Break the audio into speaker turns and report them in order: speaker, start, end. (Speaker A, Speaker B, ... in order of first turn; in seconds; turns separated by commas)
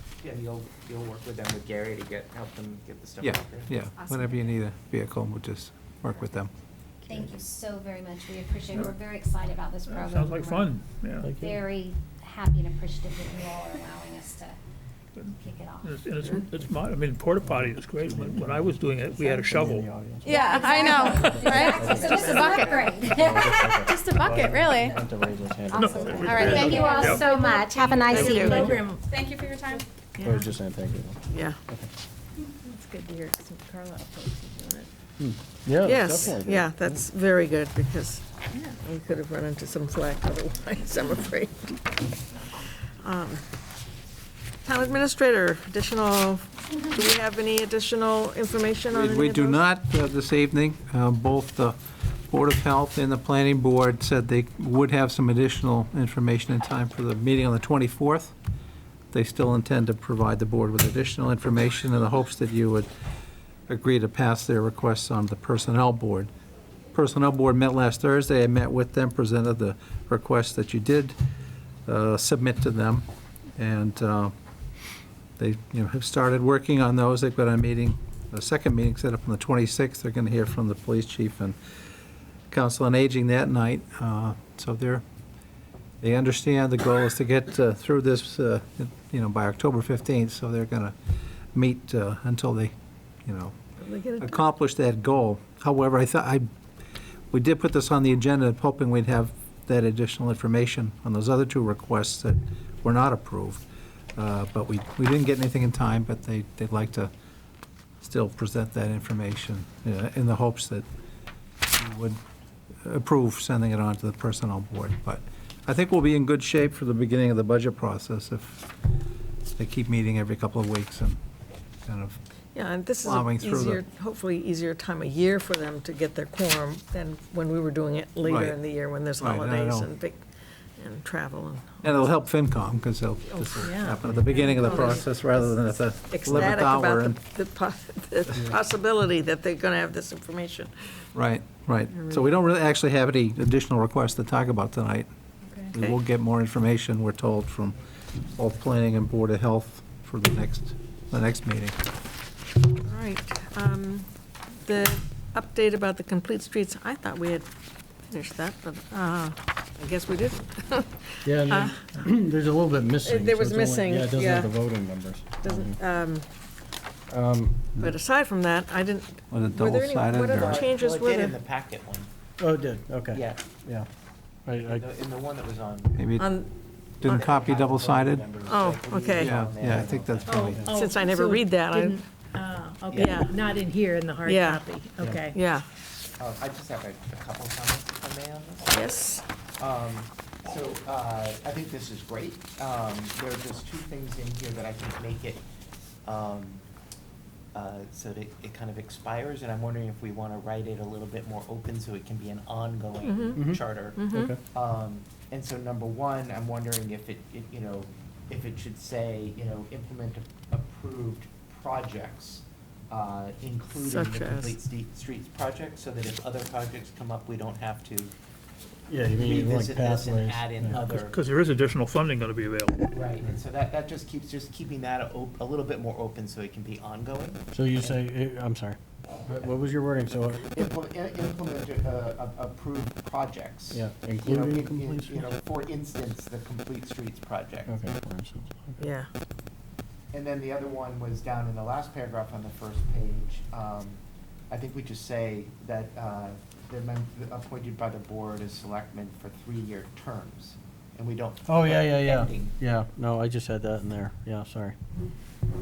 Speaker A: 0.2-3.7, Speaker B: 3.2-6.5, Speaker C: 4.0-4.5, Speaker C: 7.0-10.8, Speaker D: 8.7-9.0, Speaker D: 9.8-11.3, Speaker E: 11.2-11.6, Speaker C: 11.4-14.6, Speaker D: 15.2-19.9, Speaker C: 15.2-16.4, Speaker E: 17.4-26.8, Speaker F: 20.2-22.7, Speaker C: 20.3-23.8, Speaker F: 23.8-25.0, Speaker C: 25.7-28.6, Speaker D: 25.7-27.2, Speaker G: 27.7-28.9, Speaker D: 28.1-28.4, Speaker H: 28.5-28.9, Speaker F: 28.5-29.9, Speaker E: 28.5-28.8, Speaker G: 30.1-30.5, Speaker E: 30.2-31.9, Speaker G: 31.3-31.6, Speaker G: 32.6-34.9, Speaker E: 35.2-37.0, Speaker G: 35.8-38.2, Speaker G: 38.8-41.9, Speaker G: 43.0-43.4, Speaker G: 44.6-49.6, Speaker B: 48.9-51.8, Speaker B: 52.3-58.3, Speaker B: 59.1-62.9, Speaker B: 63.7-66.3, Speaker B: 66.9-71.2, Speaker B: 71.8-73.0, Speaker B: 73.6-74.3, Speaker B: 75.4-81.5, Speaker B: 82.5-85.0, Speaker B: 86.0-90.9, Speaker B: 91.5-92.7, Speaker B: 93.3-93.5, Speaker G: 93.8-94.5, Speaker B: 94.2-96.5, Speaker B: 97.3-103.6, Speaker B: 104.2-107.1, Speaker B: 108.0-110.8, Speaker B: 111.7-112.2, Speaker B: 112.8-118.7, Speaker B: 119.5-121.2, Speaker B: 121.8-122.2, Speaker G: 122.5-130.2, Speaker B: 123.0-123.8, Speaker B: 128.2-128.6, Speaker B: 129.2-129.9, Speaker G: 130.8-132.0, Speaker B: 131.8-137.2, Speaker G: 133.3-135.6, Speaker H: 133.6-134.9, Speaker G: 136.1-141.0, Speaker B: 141.1-145.1, Speaker G: 141.9-142.3, Speaker B: 145.7-147.8, Speaker G: 145.7-146.0, Speaker B: 148.3-151.7, Speaker G: 152.8-154.1, Speaker G: 154.6-157.5, Speaker G: 158.1-161.8, Speaker E: 161.2-165.8, Speaker G: 163.0-164.6, Speaker G: 165.4-166.3, Speaker E: 167.1-167.7, Speaker G: 167.8-171.4, Speaker B: 169.3-170.7, Speaker A: 170.3-172.1, Speaker E: 172.4-173.9, Speaker A: 173.1-173.4, Speaker E: 174.4-174.9, Speaker A: 174.5-176.1, Speaker B: 175.9-176.3, Speaker G: 176.2-176.5, Speaker B: 177.0-178.3, Speaker G: 177.0-177.3, Speaker A: 177.1-180.6, Speaker G: 178.4-179.5, Speaker B: 179.2-180.7, Speaker H: 180.2-185.4, Speaker G: 180.6-182.0, Speaker A: 182.9-183.6, Speaker G: 182.9-183.4, Speaker G: 184.2-185.6, Speaker A: 186.2-188.9, Speaker G: 188.7-189.2, Speaker A: 189.6-195.4, Speaker A: 196.0-196.6, Speaker A: 197.5-218.1, Speaker G: 203.0-204.3, Speaker E: 203.3-204.4, Speaker G: 213.8-214.6, Speaker E: 218.9-220.9, Speaker A: 219.1-221.2, Speaker D: 220.8-223.0, Speaker A: 222.9-228.0, Speaker E: 227.5-230.5, Speaker A: 230.5-237.8, Speaker E: 233.7-235.4, Speaker E: 237.7-238.8, Speaker G: 238.8-239.1, Speaker A: 240.1-252.6, Speaker E: 251.4-254.8